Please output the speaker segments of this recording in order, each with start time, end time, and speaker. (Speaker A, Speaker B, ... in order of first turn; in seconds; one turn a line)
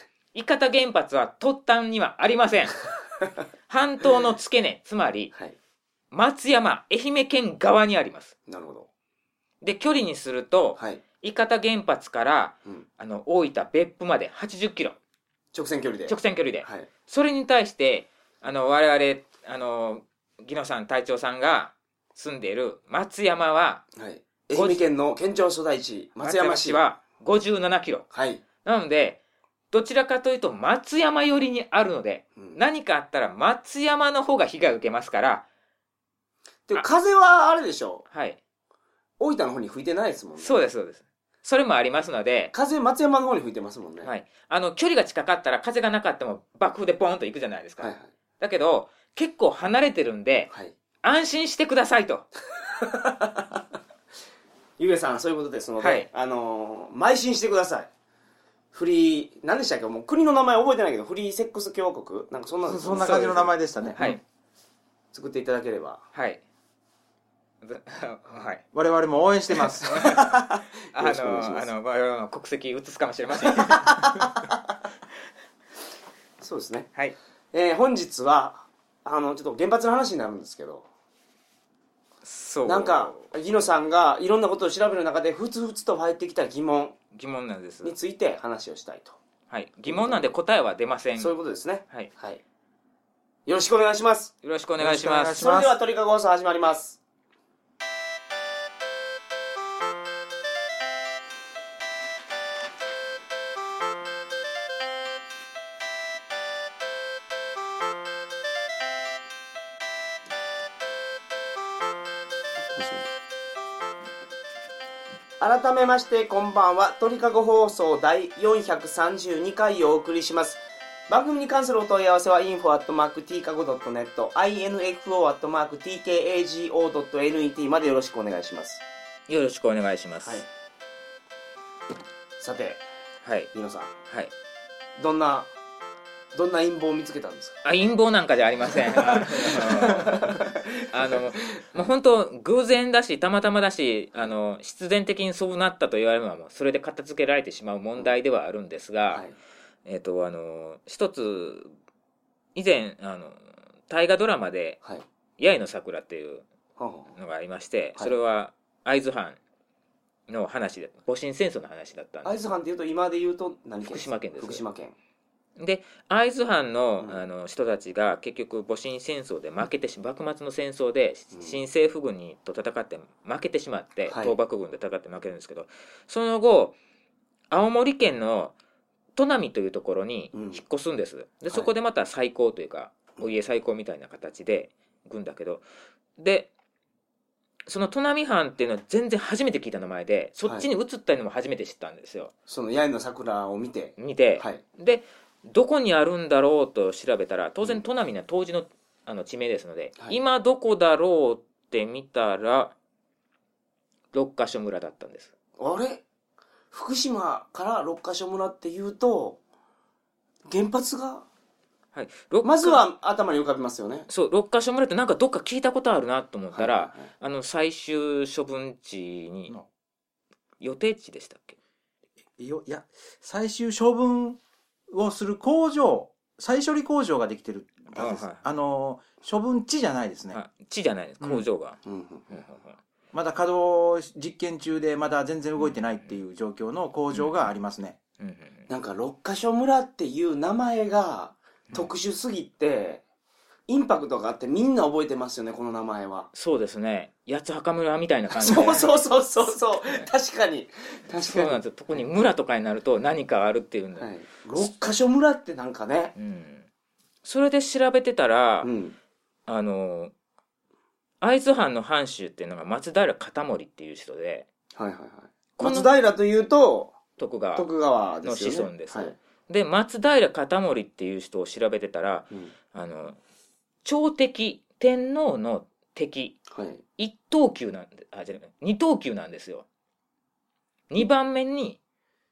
Speaker A: 0.3-2.9
Speaker A: 3.7-5.3
Speaker A: 6.1-8.3
Speaker B: 8.5-8.9
Speaker A: 9.6-15.0
Speaker B: 10.8-11.0
Speaker B: 15.5-16.9
Speaker A: 16.1-23.8
Speaker B: 23.9-26.8
Speaker A: 24.5-24.8
Speaker A: 26.2-28.1
Speaker B: 28.1-28.4
Speaker A: 28.6-29.2
Speaker A: 29.7-35.4
Speaker B: 36.7-38.0
Speaker A: 38.1-38.4
Speaker B: 39.2-40.6
Speaker A: 40.4-42.5
Speaker B: 42.5-44.1
Speaker A: 44.0-50.5
Speaker B: 47.8-48.1
Speaker A: 51.0-52.3
Speaker B: 52.8-53.6
Speaker B: 54.8-57.9
Speaker A: 55.8-56.1
Speaker B: 58.7-64.0
Speaker C: 62.6-64.2
Speaker A: 62.9-63.3
Speaker B: 65.1-66.0
Speaker A: 66.1-66.4
Speaker A: 67.6-68.6
Speaker C: 68.7-70.2
Speaker A: 69.7-74.2
Speaker B: 69.8-71.7
Speaker B: 73.5-74.5
Speaker B: 76.4-76.9
Speaker B: 77.5-80.9
Speaker A: 82.2-83.2
Speaker B: 82.6-87.0
Speaker A: 87.1-88.0
Speaker B: 87.8-89.2
Speaker A: 89.5-91.3
Speaker B: 89.8-90.3
Speaker B: 91.2-92.4
Speaker B: 93.5-94.3
Speaker A: 94.4-95.4
Speaker C: 94.8-95.8
Speaker B: 95.3-97.0
Speaker B: 112.7-113.0
Speaker B: 115.4-128.8
Speaker A: 129.3-130.4
Speaker B: 132.4-132.8
Speaker A: 133.2-133.5
Speaker B: 133.5-133.9
Speaker B: 135.0-135.5
Speaker B: 136.3-137.6
Speaker A: 137.6-140.4
Speaker B: 138.9-141.9
Speaker A: 140.9-149.2
Speaker B: 149.1-149.3
Speaker A: 149.8-151.7
Speaker A: 152.5-154.8
Speaker A: 155.4-156.4
Speaker B: 156.8-157.1
Speaker A: 157.2-159.4
Speaker A: 160.3-162.4
Speaker B: 162.2-164.9
Speaker A: 163.8-164.6
Speaker A: 165.6-176.8
Speaker B: 174.1-174.3
Speaker A: 177.5-178.5
Speaker A: 179.2-185.6
Speaker B: 180.3-180.6
Speaker A: 186.2-186.5
Speaker A: 187.7-192.3
Speaker B: 192.5-194.6
Speaker A: 194.0-202.7
Speaker A: 204.1-205.3
Speaker B: 205.6-206.0
Speaker B: 206.7-209.4
Speaker B: 210.5-211.2
Speaker A: 211.9-212.8
Speaker B: 212.4-214.1
Speaker A: 214.1-219.5
Speaker B: 216.5-217.1
Speaker A: 220.6-221.6
Speaker C: 222.4-224.4
Speaker C: 224.9-230.4
Speaker A: 227.9-228.4
Speaker A: 230.3-232.8
Speaker B: 231.8-232.4
Speaker C: 233.1-238.0
Speaker A: 235.6-236.2
Speaker A: 237.1-237.4
Speaker A: 238.2-238.7
Speaker B: 238.7-243.0
Speaker B: 243.7-246.3
Speaker A: 246.3-248.9
Speaker B: 248.3-251.6
Speaker A: 251.2-254.6
Speaker B: 254.0-256.1
Speaker A: 256.1-256.7
Speaker A: 257.2-258.7
Speaker B: 258.6-258.9
Speaker A: 259.5-260.1
Speaker A: 261.2-264.5
Speaker B: 264.7-266.9
Speaker A: 265.6-265.9
Speaker A: 267.2-267.7
Speaker B: 267.5-269.1
Speaker A: 268.2-273.2
Speaker A: 273.8-276.4
Speaker B: 276.5-276.8
Speaker A: 277.0-279.6
Speaker A: 280.9-281.8